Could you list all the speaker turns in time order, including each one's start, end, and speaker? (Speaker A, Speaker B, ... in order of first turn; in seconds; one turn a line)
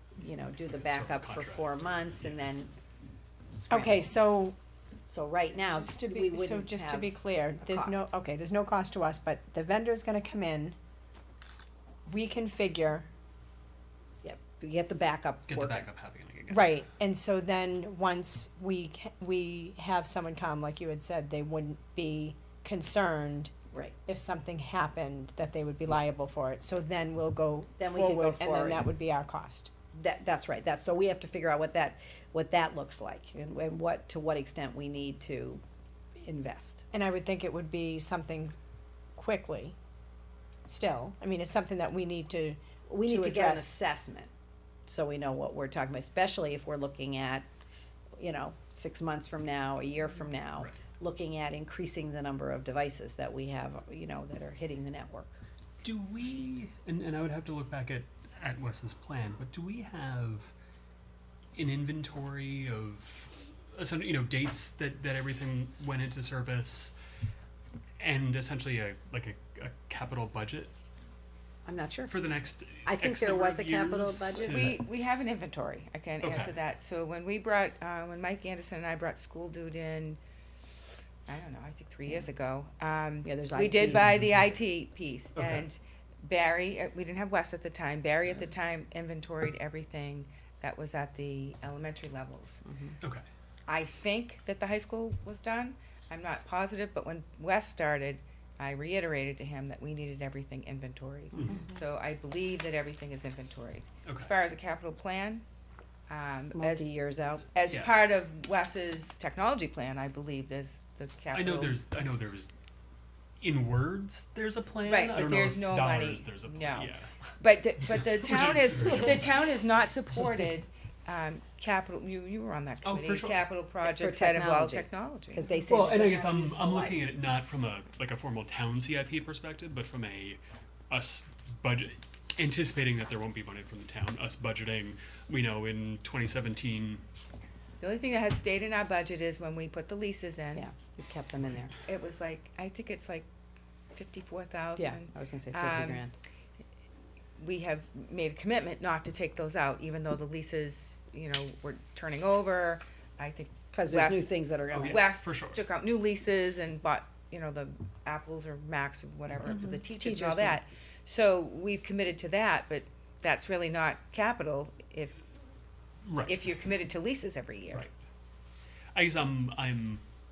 Speaker A: 0.2-2.7
Speaker B: 0.7-2.4
Speaker A: 3.6-4.1
Speaker C: 3.7-4.6
Speaker A: 5.1-8.0
Speaker C: 5.7-10.8
Speaker C: 12.1-13.1
Speaker A: 14.2-15.9
Speaker B: 15.5-16.8
Speaker C: 16.5-23.5
Speaker C: 24.1-29.7
Speaker A: 27.8-28.9
Speaker A: 29.9-35.6
Speaker A: 36.2-36.8
Speaker C: 36.9-38.5
Speaker C: 39.2-39.8
Speaker C: 40.7-43.8
Speaker A: 42.9-44.3
Speaker A: 44.9-47.5
Speaker A: 48.2-55.3
Speaker B: 55.8-60.5
Speaker B: 61.5-67.0
Speaker B: 68.0-70.7
Speaker A: 71.7-72.2
Speaker B: 72.1-74.9
Speaker A: 72.8-74.7
Speaker D: 74.3-80.2
Speaker B: 76.2-76.5
Speaker D: 81.3-92.6
Speaker A: 83.2-84.2
Speaker B: 85.3-85.7
Speaker A: 92.7-93.0
Speaker D: 93.7-105.4
Speaker B: 101.3-101.7
Speaker A: 101.5-101.7
Speaker B: 104.0-104.3
Speaker D: 106.1-106.8
Speaker A: 106.5-107.5
Speaker D: 107.5-111.8
Speaker B: 107.7-108.0
Speaker B: 111.3-112.5
Speaker B: 113.4-117.1
Speaker D: 114.8-125.5
Speaker B: 118.1-119.5
Speaker B: 122.8-123.5
Speaker A: 123.8-127.0
Speaker B: 125.7-137.1
Speaker D: 137.8-140.7
Speaker A: 140.6-141.7
Speaker D: 141.9-143.3
Speaker D: 143.9-146.0
Speaker A: 144.8-146.1
Speaker D: 147.4-165.2
Speaker A: 153.7-155.1
Speaker B: 154.7-155.7
Speaker A: 159.6-160.6
Speaker B: 166.0-166.4
Speaker D: 166.3-167.9
Speaker B: 168.9-170.0